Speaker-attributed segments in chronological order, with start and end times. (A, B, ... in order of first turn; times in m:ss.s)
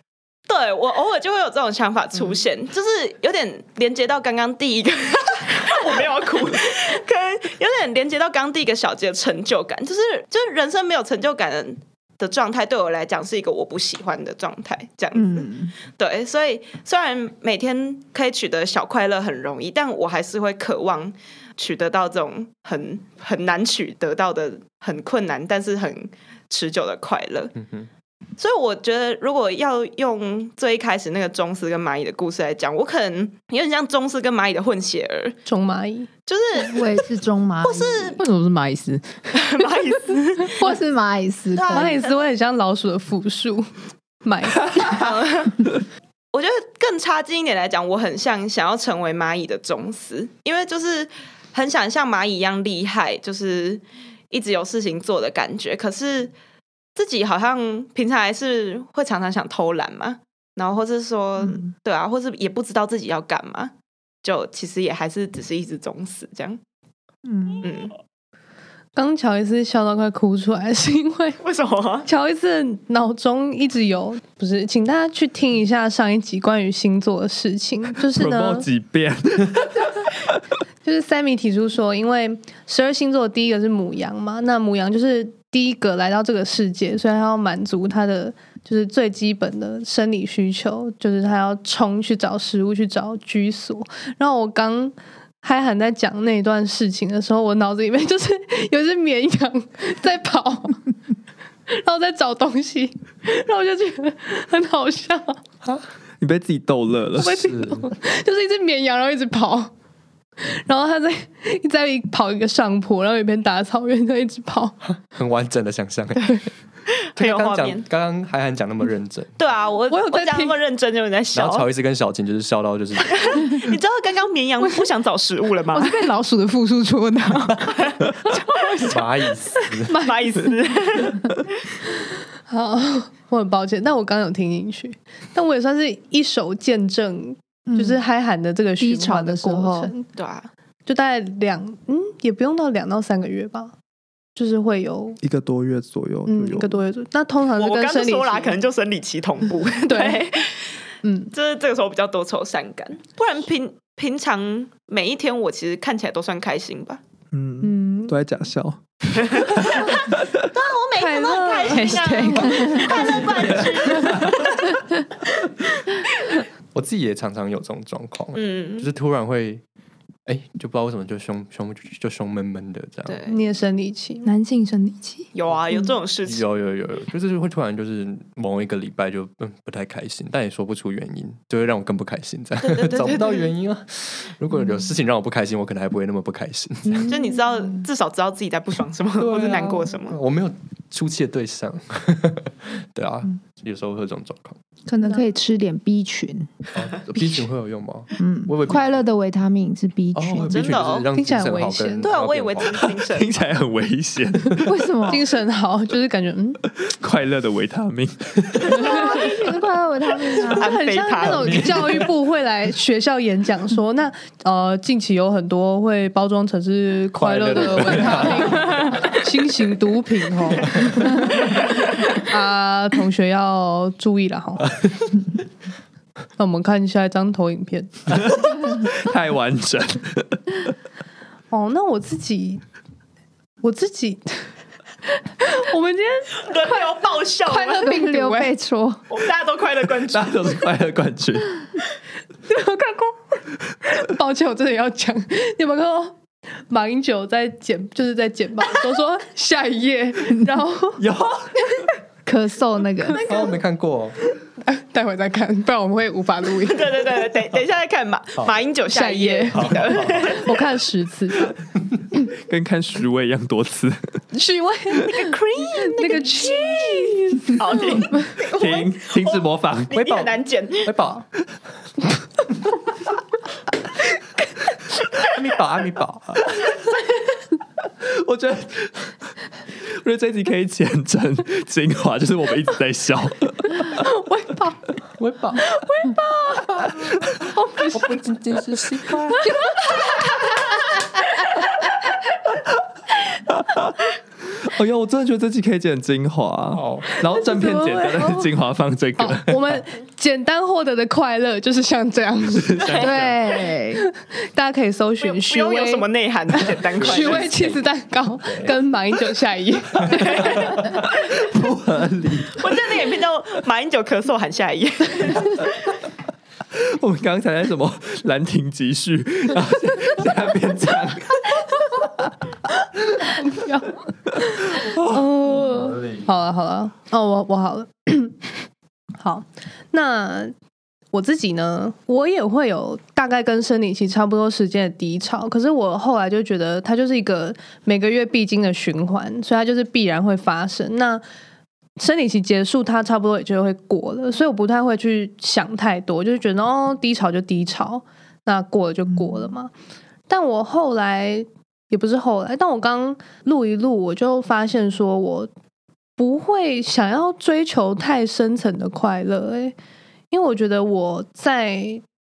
0:00.5-0:27.5 A
0:15.1-0:15.7 B
0:27.6-0:27.9 C
0:28.4-0:35.4 A
0:35.5-0:36.1 D
0:36.3-0:37.0 A
0:36.6-0:38.2 B
0:37.6-0:38.2 A
0:38.2-0:39.3 E
0:39.3-0:40.7 A
0:40.6-0:42.0 B
0:41.5-0:42.2 A
0:41.7-0:43.7 D
0:44.2-0:45.0 D
0:44.8-0:45.7 A
0:46.3-0:56.3 A
0:57.0-1:06.6 A
1:07.3-1:07.7 B
1:07.6-1:07.9 A
1:09.0-1:11.4 D
1:11.4-1:12.1 A
1:12.0-1:18.7 D
1:18.1-1:20.3 F
1:20.8-1:40.8 D
1:41.7-1:45.4 D
1:46.2-1:47.4 F
1:47.2-1:49.7 D
1:47.2-1:47.9 C
1:50.4-1:54.8 D
1:54.8-1:56.4 C
1:56.9-1:57.8 A
1:57.2-1:59.4 C
1:59.4-2:01.7 A
1:59.9-2:00.6 D
2:01.3-2:03.6 C
2:03.0-2:06.0 A
2:06.0-2:07.5 B
2:07.7-2:08.1 A
2:08.8-2:10.0 C
2:09.9-2:10.2 D
2:10.0-2:11.3 A
2:12.5-2:20.1 D
2:17.7-2:18.0 B
2:18.8-2:19.9 B
2:20.1-2:20.5 A
2:20.9-2:23.7 D
2:24.4-2:25.2 D
2:25.2-2:26.8 F
2:26.3-2:28.6 D
2:27.6-2:30.7 A
2:29.8-2:30.2 D
2:31.0-2:31.3 D
2:31.3-2:37.0 A
2:37.3-2:39.8 F
2:37.6-2:38.2 D
2:39.4-2:40.0 A
2:40.5-2:44.8 A
2:41.0-2:43.1 D
2:42.0-2:42.8 B
2:46.7-2:49.6 C
2:48.4-2:48.9 A
2:50.3-2:53.2 C
2:53.1-2:53.4 A
2:53.3-2:54.3 D
2:54.2-2:55.3 E
2:55.3-2:56.4 A
2:56.2-3:07.1 C
3:02.6-3:03.5 A
3:07.0-3:10.2 A
3:09.2-3:14.6 C
3:14.9-3:16.5 B
3:16.7-3:19.0 C
3:18.2-3:20.6 B
3:20.1-3:22.9 C
3:20.5-3:21.1 A
3:21.1-3:22.1 D
3:22.0-3:23.3 A
3:22.8-3:24.7 F
3:24.6-3:25.2 B
3:25.1-3:26.6 D
3:26.8-3:28.8 F
3:28.7-3:30.7 B
3:28.8-3:29.3 D
3:30.4-3:32.0 A
3:30.6-3:44.7 D
3:31.2-3:32.1 C
3:37.2-3:39.1 C
3:46.4-3:48.0 D
3:48.3-3:50.6 F
3:51.5-3:52.6 D
3:53.6-3:54.5 D
3:55.4-3:58.5 D
3:56.4-3:57.9 A
3:57.8-3:59.0 B
3:59.1-4:00.6 A
4:00.0-4:01.7 F
4:02.5-4:06.2 D
4:06.7-4:11.0 D
4:11.0-4:11.7 F
4:12.2-4:13.2 B
4:13.1-4:13.6 D
4:13.2-4:14.2 C
4:14.6-4:17.0 D
4:16.6-4:20.6 A
4:18.9-4:21.6 D
4:19.5-4:20.4 C
4:22.2-4:24.2 F
4:24.3-4:25.2 D
4:25.0-4:30.9 A
4:25.8-4:28.3 D
4:28.5-4:29.9 F
4:29.9-4:31.3 C
4:35.2-4:36.4 C
4:38.0-4:44.0 F
4:43.9-4:44.8 D
4:45.2-4:45.7 C
4:45.7-4:48.2 D
4:47.9-4:49.6 C
4:49.4-4:51.0 D
4:53.6-4:53.9 F
4:54.6-4:59.8 F
4:56.7-4:57.2 C
4:57.4-4:58.5 D
4:59.2-5:03.1 D
5:02.6-5:03.2 F
5:02.9-5:04.0 B
5:03.0-5:03.4 C
5:04.0-5:06.1 D
5:05.2-5:07.5 A
5:07.0-5:07.8 C
5:07.0-5:10.8 D
5:08.4-5:08.7 C
5:10.1-5:11.0 A
5:10.2-5:11.0 C
5:11.4-5:12.9 F
5:12.4-5:15.7 A
5:16.7-5:22.3 F
5:23.4-5:28.5 D
5:24.8-5:25.1 F
5:25.7-5:26.2 C
5:29.2-5:30.5 D
5:31.1-5:41.2 D
5:42.0-5:49.7 D
5:50.3-5:55.5 D
5:56.2-5:59.8 D
6:00.3-6:02.0 D